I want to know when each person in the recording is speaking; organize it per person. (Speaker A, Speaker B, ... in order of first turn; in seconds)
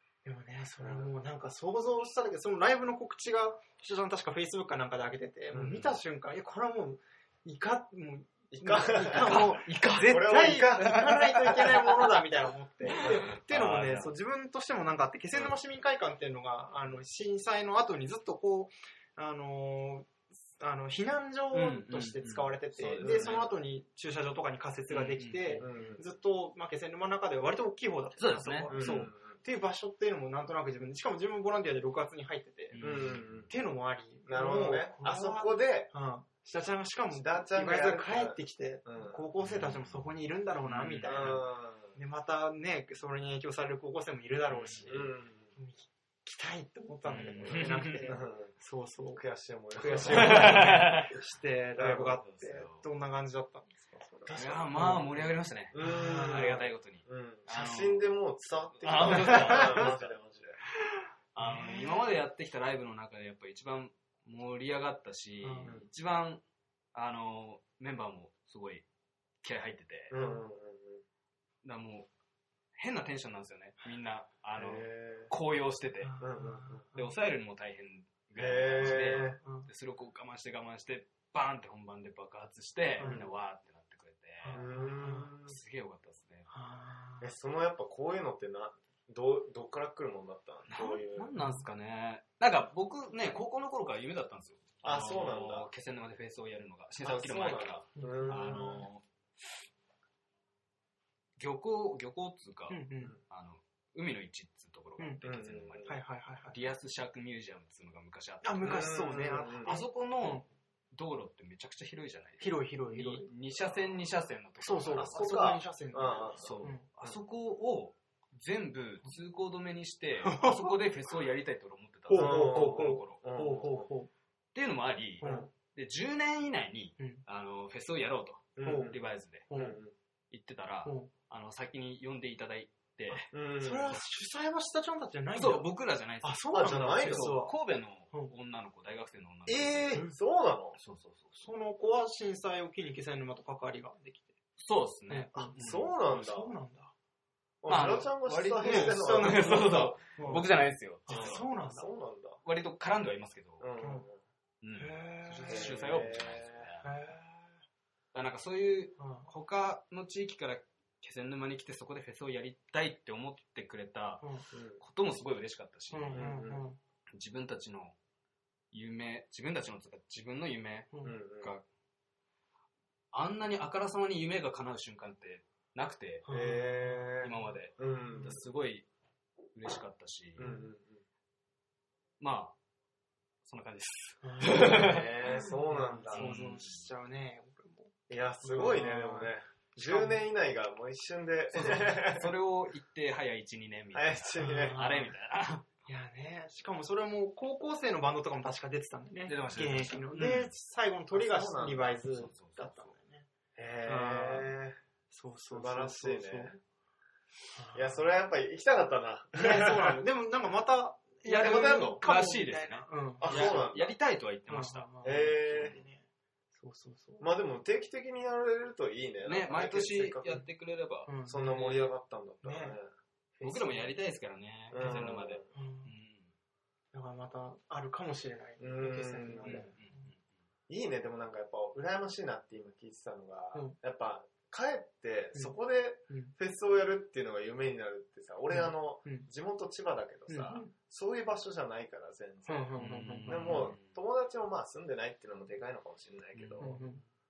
Speaker A: 0.2-32.9, 33.5-41.4, 42.0-49.2, 49.8-55.2, 55.8-56.7, 59.1-59.9, 61.4-62.1, 65.4-65.8, 76.0-77.1, 78.8-79.7, 83.0-83.2, 84.4-85.3, 86.5-87.3, 91.3-91.7, 98.0-98.8, 102.7-103.2, 105.8-106.6, 108.4-110.5, 112.4-113.3, 114.6-116.9, 120.2-120.8, 122.1-124.1, 125.2-125.5, 128.6-129.0, 129.5-129.8, 130.8-131.1, 133.6-135.7, 136.2-137.6, 139.5-140.1, 141.4-144.3, 145.1-146.9, 148.6-150.5, 151.1-151.9, 153.8-154.1, 154.8-155.8, 156.8-157.6, 159.0-159.3, 165.9-166.8, 176.3-177.2, 178.1-178.3, 180.4-180.7, 184.2-190.2, 194.4-195.1, 195.9-203.3, 203.9-204.5, 205.1-206.6, 207.6-208.0, 209.3-213.7, 214.5-217.3, 221.1-221.7, 222.4-222.8, 223.4-223.9, 225.5-225.9, 226.9-230.0, 236.1-236.3, 238.5-239.3, 240.3-240.7, 242.5-243.7, 246.6-247.0
Speaker B: 0.8-1.1, 5.5-5.9, 8.5-11.9, 23.0-23.4, 25.6-26.0, 28.7-29.4, 32.8-33.5, 34.3-35.9, 37.1-39.2, 41.0-42.0, 44.9-45.5, 47.5-48.5, 49.2-50.9, 51.8-52.2, 54.2-54.7, 55.7-60.6, 70.1-71.0, 74.5-75.3, 76.2-76.8, 78.4-79.4, 83.0-83.3, 84.5-85.6, 87.2-91.3, 94.8-95.7, 97.0-98.9, 105.2-105.9, 108.6-109.8, 114.9-117.1, 122.1-123.9, 125.2-125.5, 128.6-129.0, 129.5-129.9, 133.1-134.0, 136.5-137.4, 139.9-140.8, 145.4-146.5, 147.6-150.0, 151.1-152.4, 153.6-154.2, 155.5-156.7, 164.5-164.8, 166.1-166.6, 171.0-171.5, 176.3-178.4, 180.4-181.0, 184.5-186.3, 188.1-192.3, 193.9-194.8, 201.1-202.0, 203.6-204.8, 205.5-206.5, 207.7-210.0, 211.3-212.0, 213.2-213.9, 215.0-215.8, 217.2-220.4, 221.3-222.9, 224.7-225.5, 228.6-229.7, 230.7-242.7, 243.3-246.8
Speaker C: 9.1-11.8, 12.9-14.1, 21.5-23.5, 24.9-25.7, 28.2-29.0, 32.7-33.3, 39.4-40.0, 40.6-41.4, 44.5-44.9, 47.1-48.1, 50.0-51.2, 52.2-52.9, 54.3-58.0, 58.8-60.1, 61.4-66.4, 66.9-68.9, 69.4-70.2, 71.6-72.1, 72.8-76.2, 77.0-84.7, 85.4-86.5, 90.7-99.0, 101.4-106.0, 106.5-109.0, 109.6-115.2, 116.4-123.2, 124.5-129.5, 130.3-133.3, 135.3-140.1, 140.8-141.5, 144.6-145.9, 147.7-151.4, 152.4-153.7, 154.6-156.9, 158.1-164.3, 164.8-166.3, 167.2-168.0, 168.7-171.6, 173.1-176.3, 177.2-178.9, 179.6-180.4, 182.2-182.6, 183.4-185.4, 186.1-186.9, 191.6-195.7, 199.3-200.5, 202.1-202.9, 211.2-214.9, 219.2-221.9, 223.4-226.3, 229.4-230.2, 242.8-244.0, 246.3-246.9